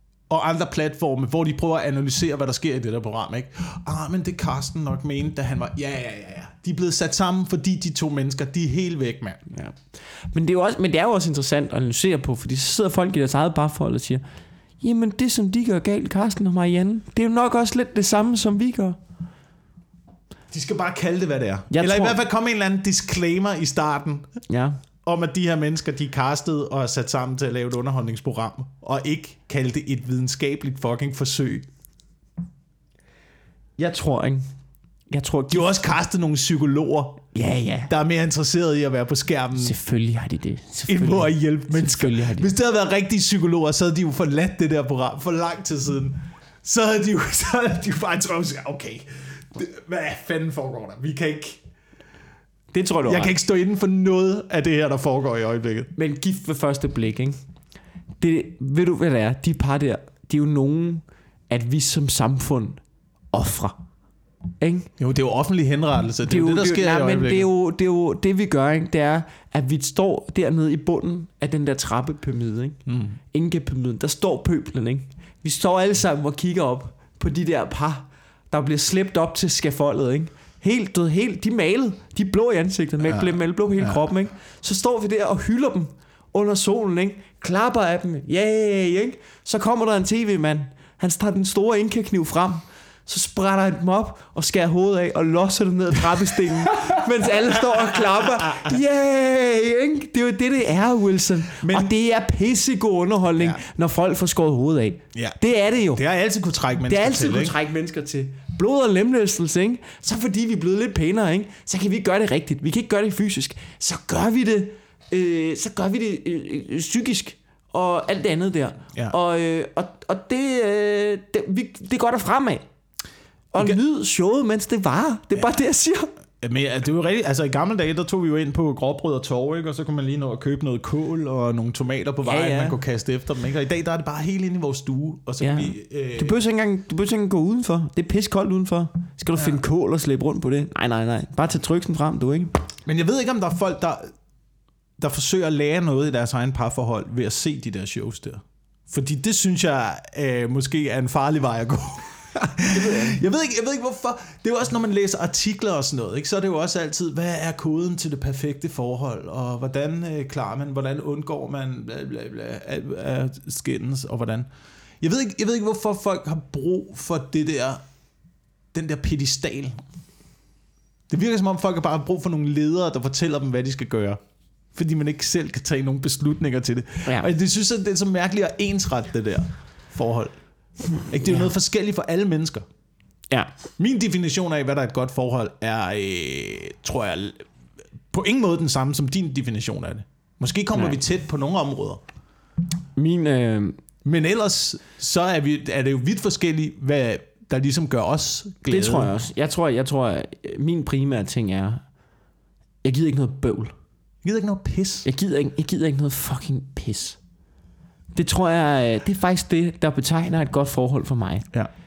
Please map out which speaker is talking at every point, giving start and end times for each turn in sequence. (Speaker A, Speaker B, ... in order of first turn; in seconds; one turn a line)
Speaker A: 0.3-9.5
Speaker B: 9.5-14.2
Speaker B: 14.8-19.0
Speaker A: 20.5-24.4
Speaker B: 21.7-22.2
Speaker B: 24.5-24.8
Speaker A: 25.0-31.7
Speaker B: 33.8-34.5
Speaker B: 35.1-35.8
Speaker A: 35.5-37.3
Speaker B: 37.3-37.9
Speaker A: 37.9-39.8
Speaker B: 39.6-42.5
Speaker A: 40.9-51.6
Speaker B: 52.7-53.3
Speaker A: 53.1-55.9
Speaker B: 56.0-57.4
Speaker B: 58.2-62.8
Speaker B: 63.3-63.8
Speaker B: 64.6-64.9
Speaker A: 65.0-67.5
Speaker B: 66.3-72.8
Speaker A: 72.9-73.2
Speaker B: 73.3-106.0
Speaker A: 83.1-84.0
Speaker A: 96.4-96.9
Speaker A: 97.7-98.8
Speaker A: 101.6-101.9
Speaker A: 105.9-107.5
Speaker B: 106.9-122.7
Speaker B: 123.5-126.1
Speaker A: 126.4-136.4
Speaker B: 132.2-132.8
Speaker B: 135.4-142.5
Speaker A: 139.4-139.6
Speaker A: 142.9-144.1
Speaker A: 145.0-164.5
Speaker B: 152.7-153.2
Speaker A: 165.0-167.8
Speaker A: 168.7-169.8
Speaker A: 171.1-174.2
Speaker A: 174.7-180.4
Speaker A: 180.9-182.7
Speaker A: 183.8-187.5
Speaker A: 188.1-192.0
Speaker B: 190.7-191.0
Speaker B: 193.0-193.8
Speaker A: 194.0-199.1
Speaker B: 198.7-201.8
Speaker B: 202.8-203.7
Speaker A: 204.2-205.1
Speaker B: 205.1-207.2
Speaker B: 208.1-211.5